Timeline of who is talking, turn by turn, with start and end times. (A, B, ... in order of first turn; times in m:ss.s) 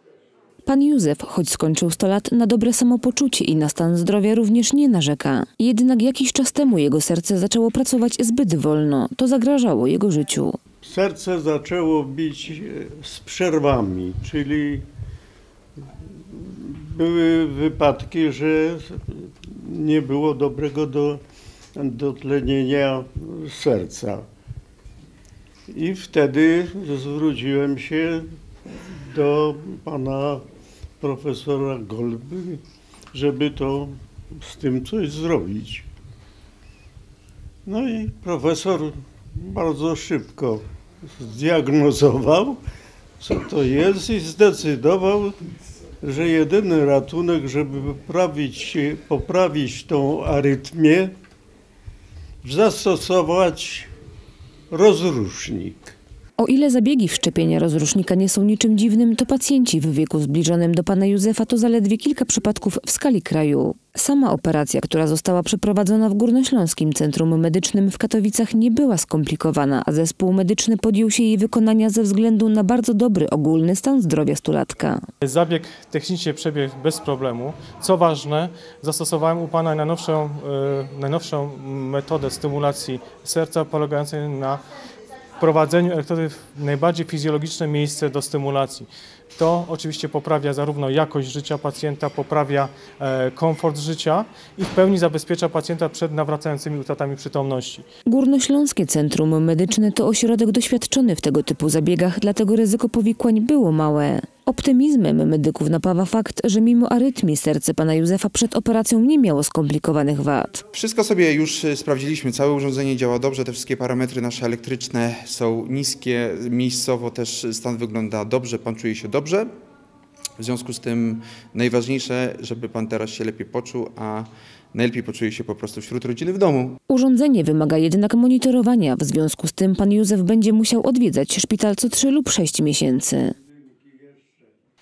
0:00.6-0:10.6 A
0:10.8-0:14.9 B
0:16.4-0:21.2 B
0:21.8-0:24.2 B
0:25.7-0:28.3 B
0:29.1-0:30.4 B
0:31.0-0:32.6 B
0:33.1-0:35.8 B
0:37.6-0:40.6 B
0:41.2-0:42.6 B
0:43.2-0:45.4 B
0:46.0-0:51.1 B
0:52.4-0:53.9 B
0:54.7-0:55.9 B
0:56.4-1:15.0 A
1:15.2-1:24.6 C
1:25.4-1:37.8 C
1:38.1-1:50.6 A
1:50.7-1:59.5 D
2:00.4-2:06.8 D
2:06.9-2:13.3 A